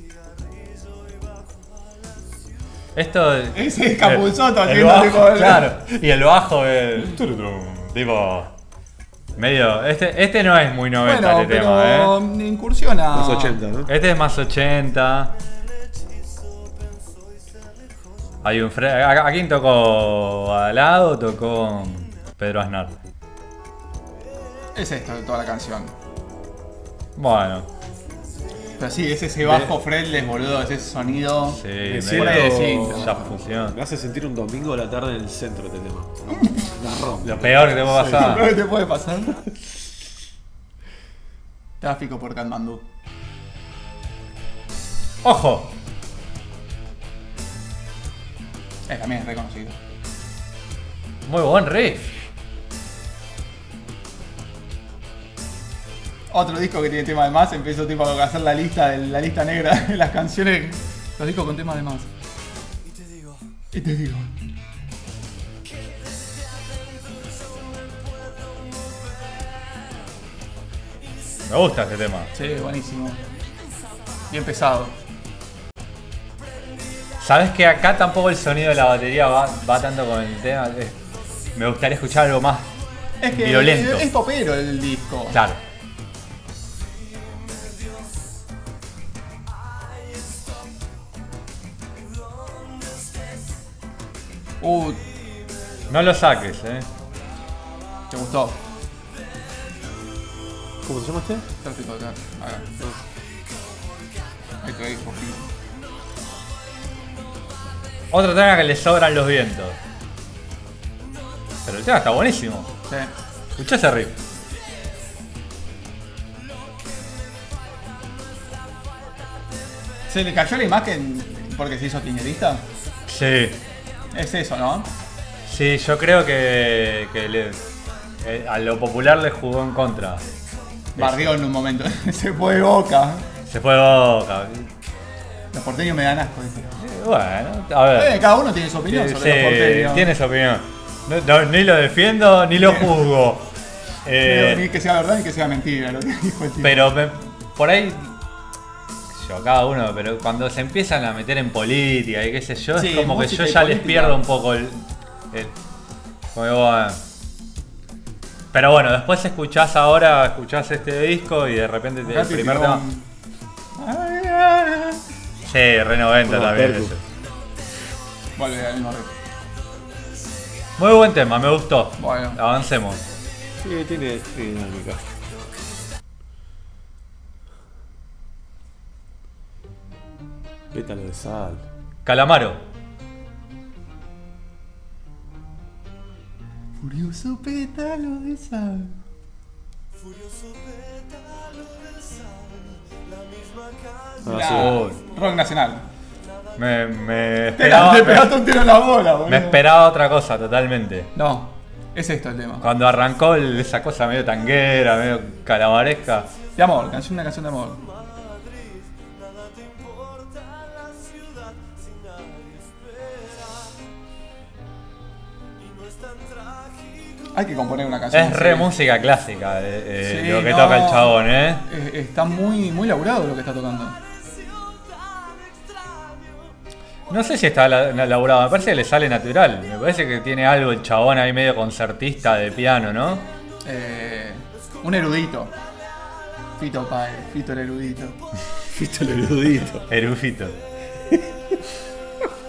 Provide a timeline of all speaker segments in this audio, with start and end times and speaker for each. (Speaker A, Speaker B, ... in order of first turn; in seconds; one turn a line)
Speaker A: 2.9-8.5
Speaker B: 3.5-5.7
Speaker A: 9.3-12.2
Speaker B: 11.0-13.6
Speaker C: 13.1-13.9
Speaker A: 13.9-15.3
Speaker A: 18.4-23.0
Speaker B: 24.8-25.9
Speaker A: 27.1-27.7
Speaker B: 28.8-33.4
Speaker A: 29.4-29.7
Speaker A: 31.5-33.8
Speaker C: 31.8-38.4
Speaker B: 36.3-36.7
Speaker A: 37.2-38.5
Speaker B: 38.1-39.4
Speaker B: 41.8-42.8
Speaker A: 45.2-45.7
Speaker B: 48.9-49.8
Speaker A: 51.2-52.1
Speaker B: 56.3-62.1
Speaker B: 63.7-64.3
Speaker A: 71.5-72.3
Speaker B: 72.3-73.2
Speaker B: 74.3-74.9
Speaker A: 77.2-81.0
Speaker A: 81.5-82.7
Speaker B: 83.2-85.4
Speaker A: 83.3-84.1
Speaker A: 85.3-85.6
Speaker B: 94.6-95.0
Speaker A: 95.9-96.9
Speaker B: 98.1-98.6
Speaker C: 100.8-101.5
Speaker B: 101.6-102.7
Speaker B: 104.6-105.5
Speaker A: 108.1-109.8
Speaker A: 111.7-112.7
Speaker A: 113.6-114.2
Speaker B: 120.1-122.7
Speaker A: 123.1-123.6
Speaker B: 124.1-124.9
Speaker A: 125.5-127.6
Speaker A: 128.2-130.2
Speaker B: 130.9-133.3
Speaker A: 131.0-131.4
Speaker A: 133.5-134.7
Speaker B: 135.5-136.7
Speaker A: 136.8-138.2
Speaker B: 137.9-140.1
Speaker A: 138.8-143.5
Speaker B: 142.6-142.9
Speaker A: 144.1-144.6
Speaker B: 144.2-146.8
Speaker A: 146.6-148.2
Speaker A: 149.2-155.5
Speaker B: 152.8-154.2
Speaker A: 156.3-157.0
Speaker A: 158.5-162.8
Speaker B: 162.1-163.1
Speaker B: 163.8-165.0
Speaker A: 165.4-167.0
Speaker C: 166.3-166.9
Speaker B: 168.4-169.2
Speaker A: 170.8-173.0
Speaker B: 172.0-172.4
Speaker C: 173.6-175.1
Speaker C: 180.7-181.6
Speaker A: 182.1-182.6
Speaker B: 186.8-189.0
Speaker C: 194.2-194.8
Speaker B: 194.2-195.8
Speaker A: 194.4-195.0
Speaker A: 196.6-198.4
Speaker B: 197.6-199.6
Speaker A: 199.3-201.1
Speaker B: 201.2-202.7
Speaker A: 202.6-206.3
Speaker B: 206.6-207.9
Speaker B: 217.3-218.7
Speaker A: 218.1-221.7
Speaker B: 220.0-224.0
Speaker A: 227.1-233.3
Speaker B: 233.6-235.6
Speaker B: 236.6-238.2
Speaker C: 238.7-239.9
Speaker A: 239.9-240.6